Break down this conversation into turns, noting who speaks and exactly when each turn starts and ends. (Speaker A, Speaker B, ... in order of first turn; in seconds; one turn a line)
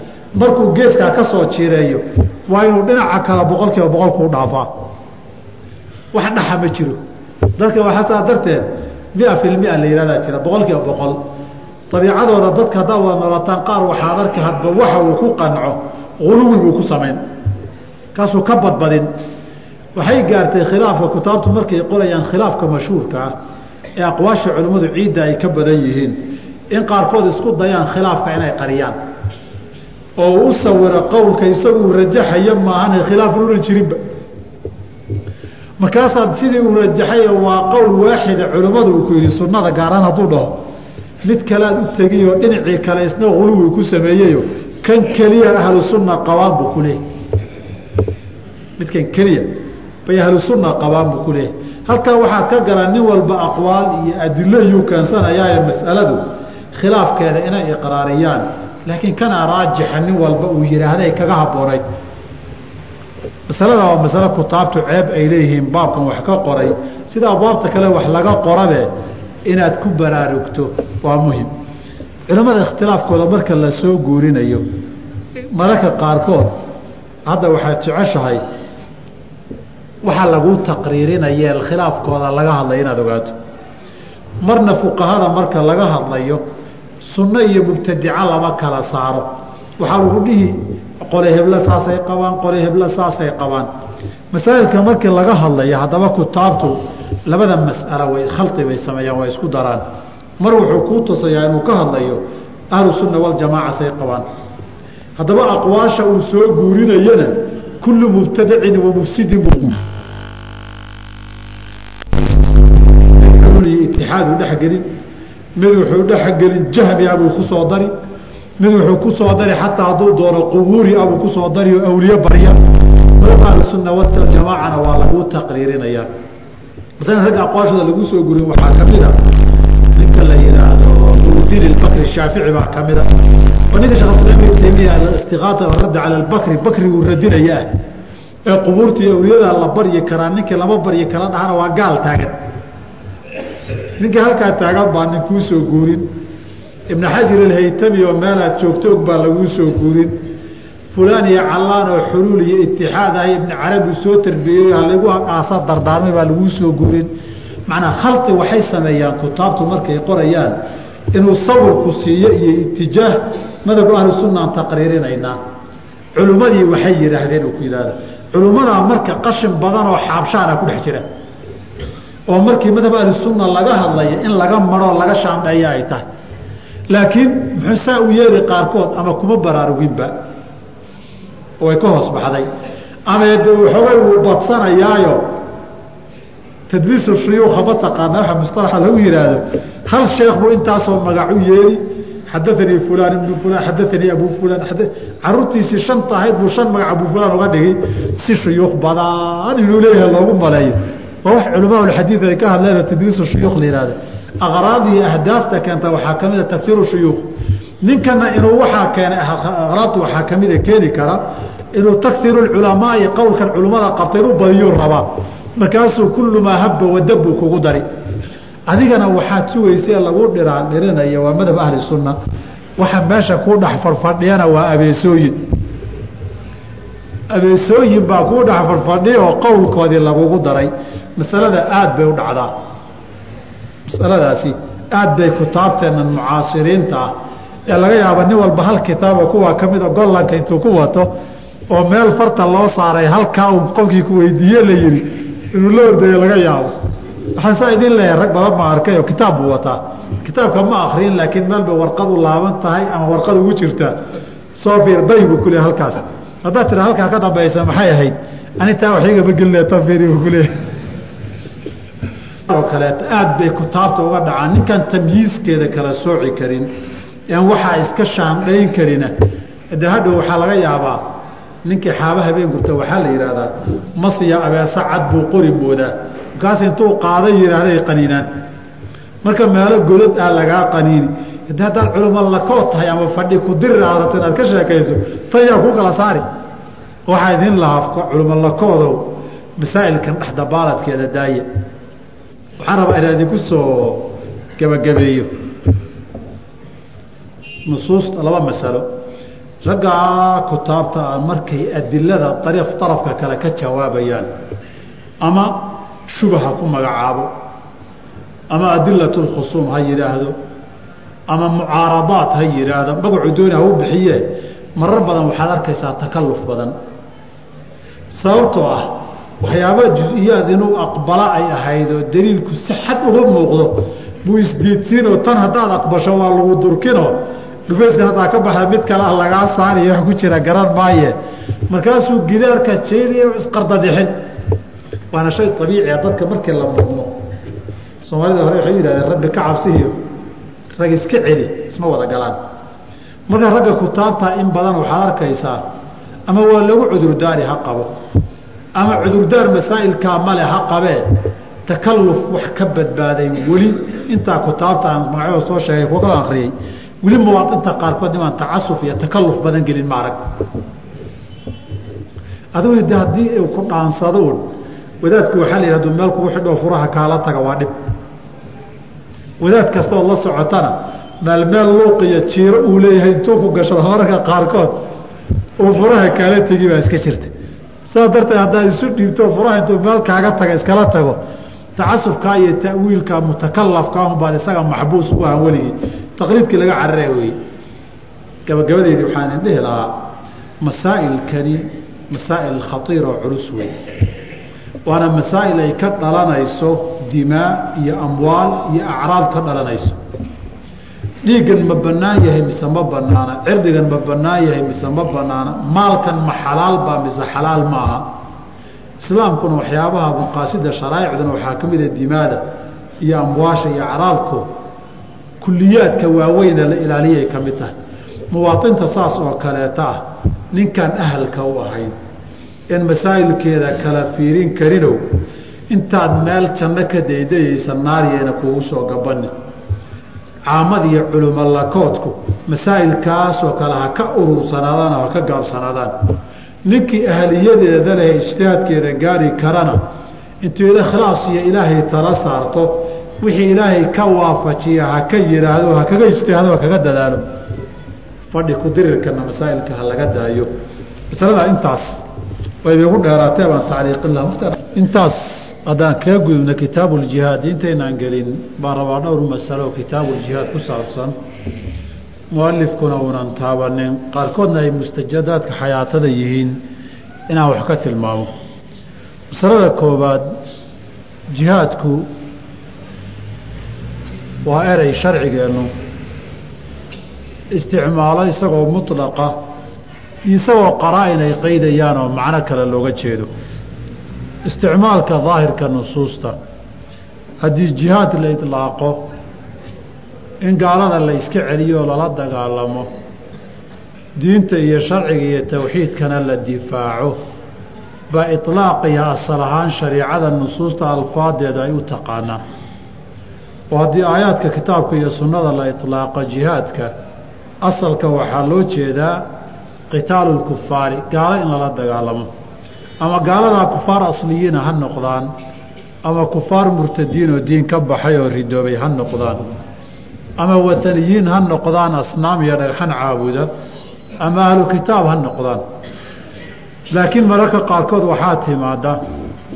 Speaker A: 0.3-4.7
Speaker A: 6.1-7.0
Speaker A: 7.6-11.2
Speaker A: 11.9-17.2
Speaker A: 18.1-19.1
Speaker A: 19.9-23.3
Speaker A: 24.0-29.0
Speaker A: 30.2-34.0
Speaker A: 35.8-40.6
Speaker A: 41.2-47.0
Speaker A: 48.8-61.8
Speaker A: 63.5-68.9
Speaker A: 69.5-71.5
Speaker A: 72.3-74.7
Speaker A: 75.5-76.5
Speaker A: 77.3-78.4
Speaker A: 80.0-83.4
Speaker A: 84.4-86.4
Speaker A: 87.0-93.7
Speaker A: 94.3-99.8
Speaker A: 100.4-104.2
Speaker A: 105.2-109.8
Speaker A: 113.2-114.9
Speaker A: 115.6-117.9
Speaker A: 118.6-126.1
Speaker A: 127.0-129.2
Speaker A: 129.9-137.7
Speaker A: 138.5-142.3
Speaker A: 144.0-146.1
Speaker A: 146.9-150.2
Speaker A: 150.9-157.1
Speaker A: 157.7-160.6
Speaker A: 161.1-165.4
Speaker A: 166.2-171.1
Speaker A: 172.3-176.0
Speaker A: 176.9-180.2
Speaker A: 181.6-182.5
Speaker A: 183.1-185.3
Speaker A: 186.7-207.3
Speaker A: 207.8-211.2
Speaker A: 211.7-217.8
Speaker A: 218.7-222.2
Speaker A: 222.8-225.5
Speaker A: 227.3-232.5
Speaker A: 233.9-237.1
Speaker A: 237.7-241.1
Speaker A: 241.7-246.7
Speaker A: 247.3-254.0
Speaker A: 254.6-260.5
Speaker A: 262.5-266.7
Speaker A: 267.3-269.1
Speaker A: 269.7-271.1
Speaker A: 271.6-278.3
Speaker A: 279.2-286.3
Speaker A: 287.1-291.5
Speaker A: 292.6-295.3
Speaker A: 297.7-298.9
Speaker A: 299.6-304.3
Speaker A: 305.2-307.3
Speaker A: 308.5-310.4
Speaker A: 311.3-316.8
Speaker A: 318.1-331.2
Speaker A: 331.7-334.2
Speaker A: 335.1-337.1
Speaker A: 338.0-340.0
Speaker A: 340.8-342.4
Speaker A: 343.3-345.6
Speaker A: 346.3-347.9
Speaker A: 348.8-360.2
Speaker A: 362.6-364.5
Speaker A: 365.0-367.7
Speaker A: 369.4-374.8
Speaker A: 375.6-377.3
Speaker A: 377.9-381.2
Speaker A: 381.8-387.4
Speaker A: 388.5-390.1
Speaker A: 390.6-393.7
Speaker A: 394.9-400.0
Speaker A: 401.2-408.1
Speaker A: 409.0-412.4
Speaker A: 413.0-414.5
Speaker A: 415.4-417.7
Speaker A: 418.3-421.9
Speaker A: 422.7-425.2
Speaker A: 425.7-429.3
Speaker A: 430.5-436.1
Speaker A: 436.6-439.8
Speaker A: 440.4-447.2
Speaker A: 448.3-450.5
Speaker A: 451.1-452.0
Speaker A: 452.6-461.2
Speaker A: 462.3-466.6
Speaker A: 467.3-468.3
Speaker A: 469.3-470.3
Speaker A: 471.3-472.1
Speaker A: 474.4-475.7
Speaker A: 477.5-479.5
Speaker A: 480.2-483.3
Speaker A: 484.4-486.4
Speaker A: 487.4-489.1
Speaker A: 490.4-492.9
Speaker A: 494.2-497.2
Speaker A: 498.1-502.4
Speaker A: 503.7-506.9
Speaker A: 507.6-509.3
Speaker A: 509.9-512.3
Speaker A: 513.0-515.3
Speaker A: 516.0-519.4
Speaker A: 520.4-523.5
Speaker A: 524.2-525.6
Speaker A: 526.9-529.0